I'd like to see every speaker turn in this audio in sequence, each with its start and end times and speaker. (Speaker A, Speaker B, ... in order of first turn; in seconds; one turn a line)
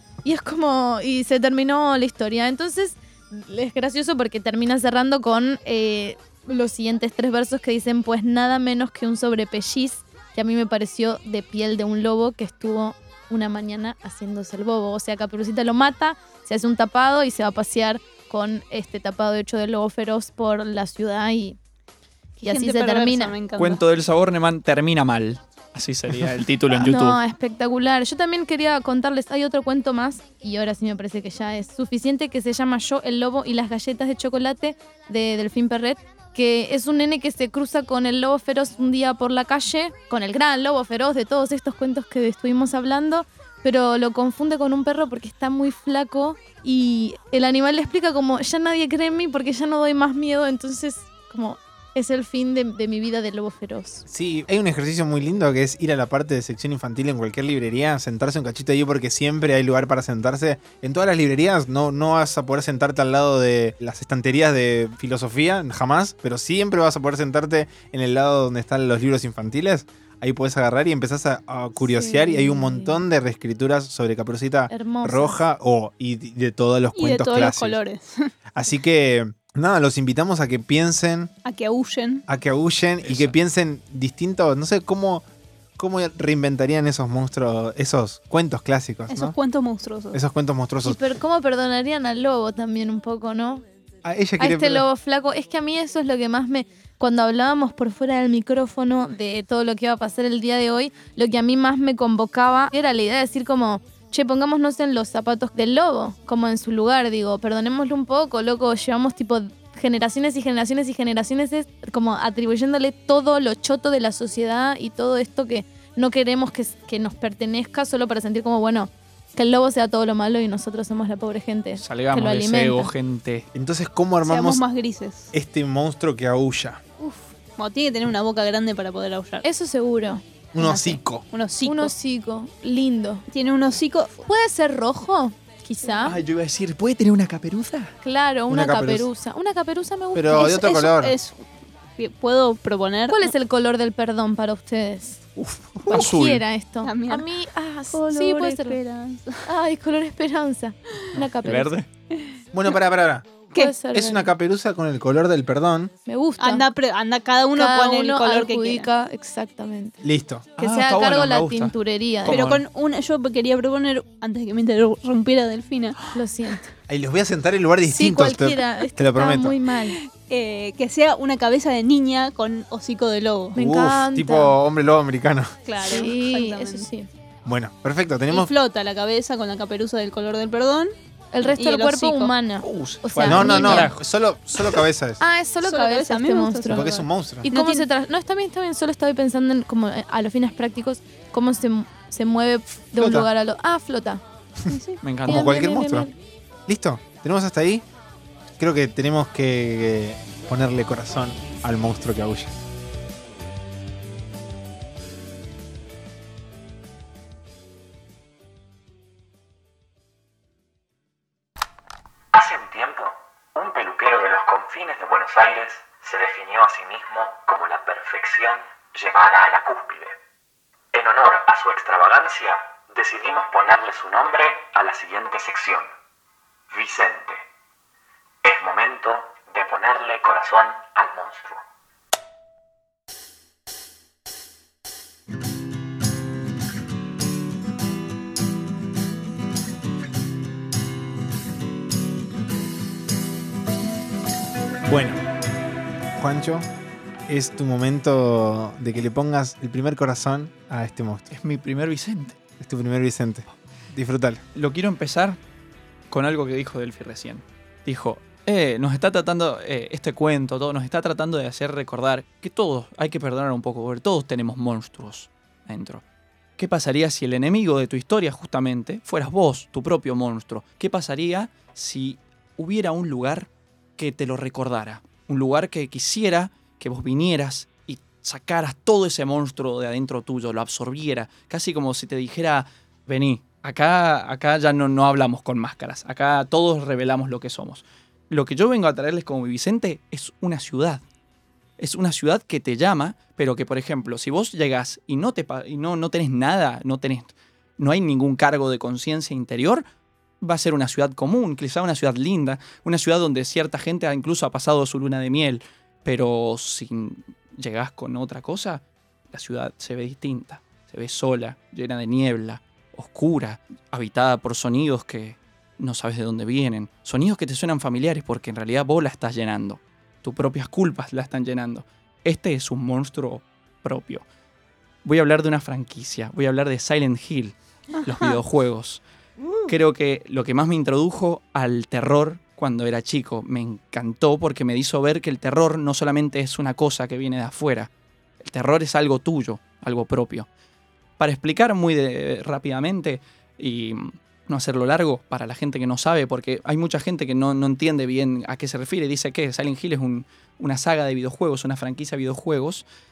Speaker A: 0.2-21.6
Speaker A: 22.4-23.4
Speaker B: 22.4-23.8
Speaker C: 23.6-27.2
Speaker A: 26.7-54.0
Speaker D: 54.1-77.8
Speaker A: 71.9-73.0
Speaker A: 74.7-75.4
Speaker B: 77.0-78.3
Speaker D: 78.5-81.3
Speaker B: 81.5-82.2
Speaker D: 82.3-85.2
Speaker C: 83.0-83.3
Speaker D: 85.8-89.4
Speaker B: 89.1-90.2
Speaker D: 90.1-91.0
Speaker A: 90.8-93.7
Speaker D: 94.0-94.9
Speaker A: 94.4-122.9
Speaker C: 121.8-123.5
Speaker D: 123.5-124.6
Speaker B: 124.2-125.3
Speaker D: 125.3-126.8
Speaker B: 127.0-129.4
Speaker A: 129.4-130.2
Speaker D: 130.5-131.2
Speaker B: 130.6-131.9
Speaker A: 131.6-133.2
Speaker B: 133.3-134.2
Speaker A: 134.2-136.2
Speaker C: 136.0-137.9
Speaker A: 138.0-140.9
Speaker D: 138.5-139.1
Speaker D: 140.1-141.2
Speaker B: 140.3-141.4
Speaker B: 142.0-143.3
Speaker A: 143.1-145.2
Speaker C: 145.4-146.4
Speaker A: 145.9-148.8
Speaker B: 146.8-147.3
Speaker B: 147.9-149.4
Speaker A: 149.4-151.7
Speaker C: 151.2-151.9
Speaker D: 152.5-155.9
Speaker A: 153.5-154.3
Speaker A: 156.1-156.7
Speaker B: 156.4-158.9
Speaker A: 157.6-160.0
Speaker D: 160.0-160.5
Speaker C: 160.6-162.7
Speaker A: 160.6-162.4
Speaker B: 162.3-166.0
Speaker A: 166.1-166.7
Speaker D: 166.9-169.6
Speaker A: 167.9-170.0
Speaker B: 170.1-173.6
Speaker A: 173.6-174.6
Speaker D: 173.6-175.6
Speaker B: 175.7-176.9
Speaker A: 175.8-177.1
Speaker D: 177.4-178.5
Speaker B: 178.3-182.3
Speaker A: 181.3-183.9
Speaker C: 182.6-183.9
Speaker D: 183.2-185.2
Speaker A: 185.2-194.2
Speaker B: 185.6-186.9
Speaker D: 186.7-187.5
Speaker B: 187.5-187.9
Speaker D: 192.9-193.3
Speaker B: 194.7-195.0
Speaker C: 195.0-195.5
Speaker D: 195.2-196.1
Speaker A: 195.3-196.1
Speaker D: 196.7-197.8
Speaker D: 198.6-202.6
Speaker E: 212.3-220.2
Speaker E: 220.9-225.9
Speaker E: 226.7-227.4
Speaker E: 228.4-231.6
Speaker D: 244.9-245.2
Speaker D: 246.2-246.7
Speaker D: 247.3-251.3
Speaker C: 251.3-252.4
Speaker D: 252.6-254.4
Speaker C: 254.6-255.4
Speaker C: 256.1-266.0
Speaker C: 266.6-291.0
Speaker C: 291.8-299.9
Speaker C: 300.4-324.2
Speaker C: 325.0-329.0
Speaker B: 328.0-328.4
Speaker C: 329.7-340.5
Speaker C: 341.2-352.8